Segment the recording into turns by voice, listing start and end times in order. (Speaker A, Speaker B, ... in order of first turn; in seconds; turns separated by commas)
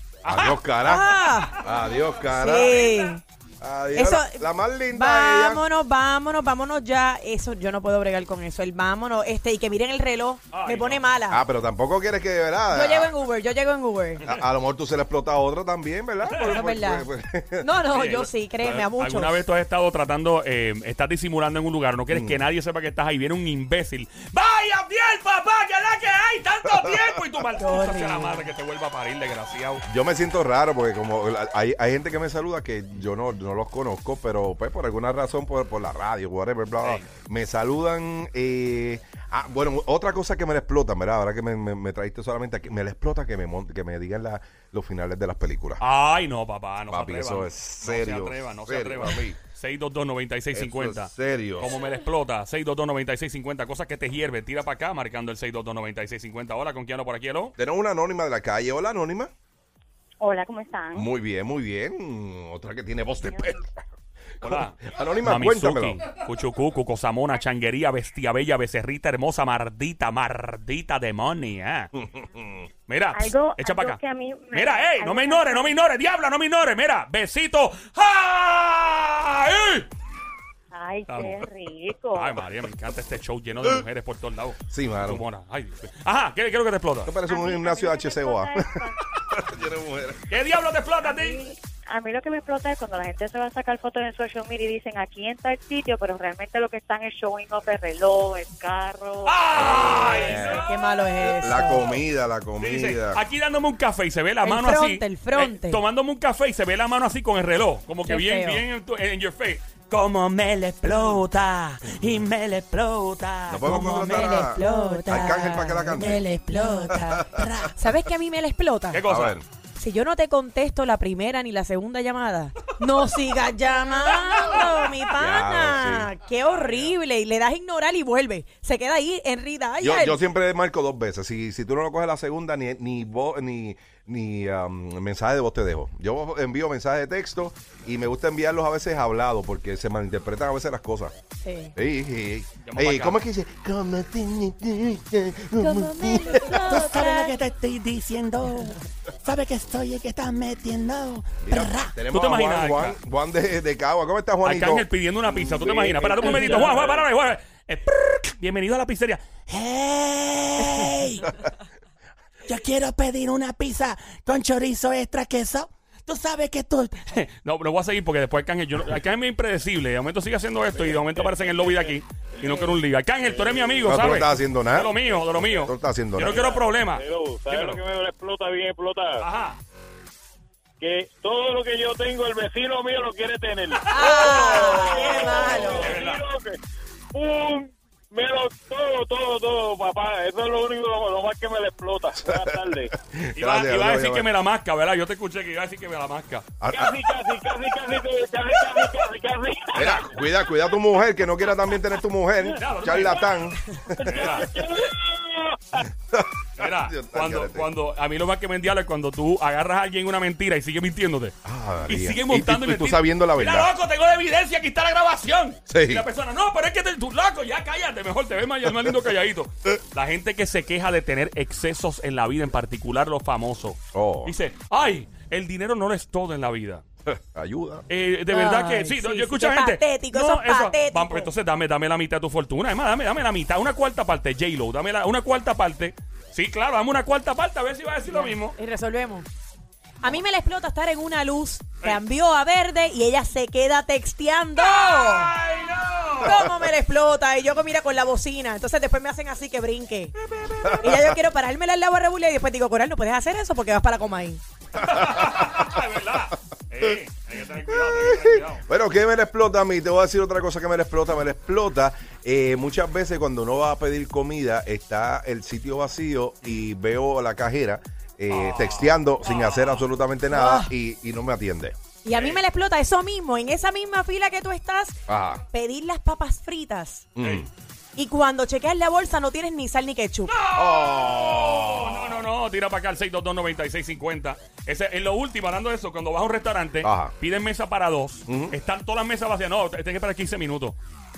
Speaker A: 0.2-0.6, Speaker B: 0.2-2.9, Speaker C: 0.8-1.6, Speaker A: 1.2-1.6, Speaker C: 2.3-3.2, Speaker B: 3.6-5.6, Speaker C: 3.9-11.4, Speaker A: 10.5-11.0, Speaker B: 11.3-13.1, Speaker C: 12.7-14.2, Speaker B: 14.2-17.7, Speaker A: 16.3-16.7, Speaker C: 16.4-17.1, Speaker C: 17.6-19.4, Speaker A: 17.9-29.8, Speaker B: 22.1-22.4, Speaker C: 27.6-28.5, Speaker B: 29.9-45.8, Speaker A: 36.8-37.0, Speaker A: 45.8-57.5, Speaker B: 46.9-49.4, Speaker B: 50.5-51.7, Speaker B: 57.6-59.3, Speaker D: 60.2-61.1, Speaker B: 60.9-63.8, Speaker D: 63.2-63.5, Speaker B: 64.4-66.0, Speaker A: 64.4-71.9, Speaker B: 72.0-72.7, Speaker A: 72.9-74.0, Speaker D: 73.1-75.8, Speaker A: 74.5-79.9, Speaker D: 80.7-82.4, Speaker A: 81.1-81.4, Speaker A: 82.1-87.1, Speaker B: 84.7-85.2, Speaker B: 87.0-90.2, Speaker D: 87.2-89.0, Speaker A: 90.3-91.4, Speaker D: 91.0-100.3, Speaker A: 99.2-101.0, Speaker B: 99.8-100.6, Speaker C: 100.0-102.0, Speaker B: 101.2-103.2, Speaker A: 102.6-111.2, Speaker C: 104.4-105.8, Speaker C: 108.0-108.6, Speaker E: 110.5-117.8, Speaker B: 113.5-116.3, Speaker C: 113.7-116.9, Speaker B: 116.9-117.4, Speaker C: 117.7-119.0, Speaker A: 118.9-119.4, Speaker B: 119.0-119.5, Speaker C: 119.8-130.2, Speaker A: 124.1-124.8, Speaker B: 125.1-126.1, Speaker A: 126.4-127.0, Speaker B: 129.8-141.1, Speaker C: 141.4-141.7, Speaker B: 141.8-146.6, Speaker A: 142.6-143.2, Speaker C: 145.6-147.4, Speaker E: 146.2-151.9, Speaker B: 151.4-156.2, Speaker A: 152.1-153.0, Speaker A: 154.4-159.3, Speaker F: 155.7-157.0, Speaker E: 159.4-161.3, Speaker E: 162.5-167.1, Speaker A: 167.1-177.8, Speaker F: 170.7-174.0, Speaker B: 173.8-176.4, Speaker F: 176.2-179.2, Speaker A: 179.2-179.6, Speaker F: 180.8-186.6, Speaker A: 183.7-185.0, Speaker C: 183.9-185.9, Speaker A: 185.7-186.2, Speaker F: 187.1-192.9, Speaker B: 192.3-194.3, Speaker A: 193.3-196.4, Speaker B: 196.6-197.0, Speaker F: 196.7-199.9, Speaker B: 199.8-204.4, Speaker A: 202.5-204.5, Speaker F: 204.0-205.8, Speaker B: 206.1-207.7, Speaker A: 206.6-211.3, Speaker B: 211.4-213.7, Speaker A: 211.9-226.8, Speaker B: 215.7-216.1, Speaker B: 223.9-224.3, Speaker B: 227.1-227.8, Speaker A: 227.9-238.6, Speaker C: 228.3-231.3, Speaker C: 238.1-239.2, Speaker C: 240.0-245.3, Speaker A: 244.6-246.4, Speaker C: 246.2-250.1, Speaker B: 250.6-251.2, Speaker C: 250.8-254.4, Speaker A: 254.7-258.6, Speaker B: 254.8-255.6, Speaker B: 257.7-271.8, Speaker A: 268.3-269.9, Speaker C: 270.3-270.7, Speaker C: 272.0-275.0, Speaker A: 272.1-272.4, Speaker B: 275.1-275.4, Speaker C: 275.5-277.1, Speaker B: 277.1-277.5, Speaker A: 277.2-277.5, Speaker C: 277.9-280.4, Speaker A: 280.3-290.8, Speaker B: 280.5-282.2, Speaker B: 286.8-287.1, Speaker B: 288.3-288.5